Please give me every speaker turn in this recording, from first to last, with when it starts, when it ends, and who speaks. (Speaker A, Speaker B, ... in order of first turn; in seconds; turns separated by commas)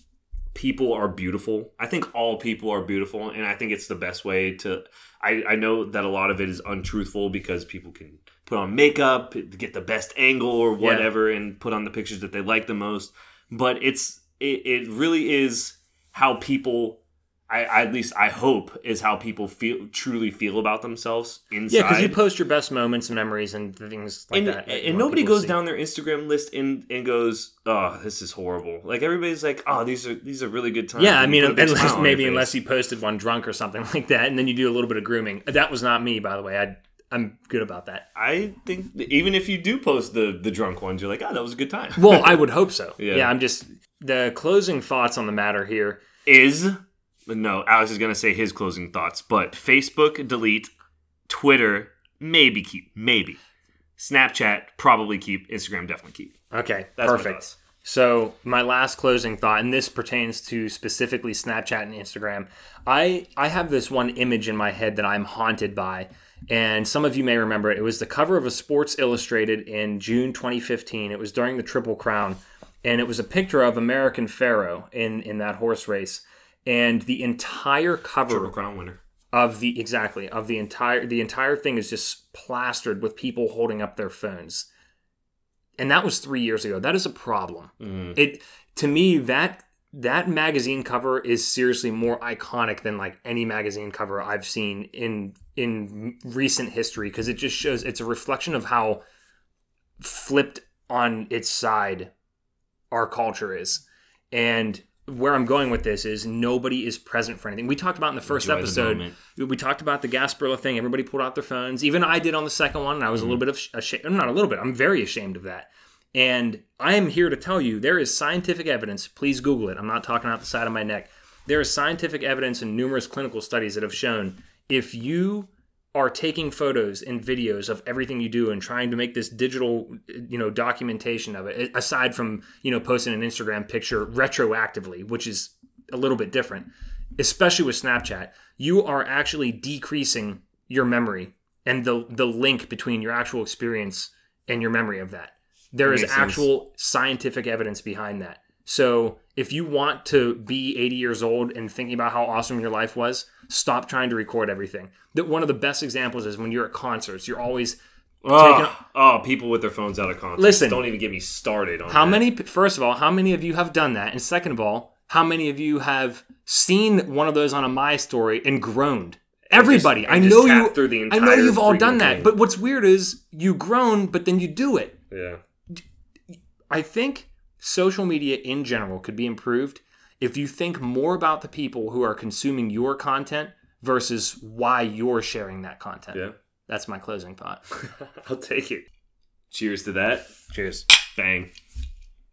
Speaker A: 0.5-22.2, Speaker B: 10.8-11.1, Speaker B: 21.7-25.6, Speaker A: 24.3-32.5, Speaker B: 31.0-38.1, Speaker A: 38.1-42.5, Speaker B: 42.0-46.0, Speaker A: 43.0-43.3, Speaker A: 46.3-50.7, Speaker A: 51.3-53.4, Speaker A: 54.0-56.4, Speaker B: 56.5-78.5, Speaker A: 57.0-57.5, Speaker A: 78.3-79.0, Speaker B: 79.3-84.7, Speaker B: 85.8-99.0, Speaker A: 87.8-88.2, Speaker B: 100.0-102.1, Speaker B: 102.9-157.8, Speaker A: 108.3-109.2, Speaker A: 145.8-146.5, Speaker A: 158.2-162.3, Speaker B: 158.3-158.8, Speaker B: 160.4-160.9, Speaker B: 161.9-175.0, Speaker A: 169.5-172.3, Speaker A: 175.1-175.4, Speaker B: 176.7-187.6, Speaker A: 187.8-188.8, Speaker A: 189.5-190.3, Speaker B: 190.5-190.9, Speaker A: 191.1-191.5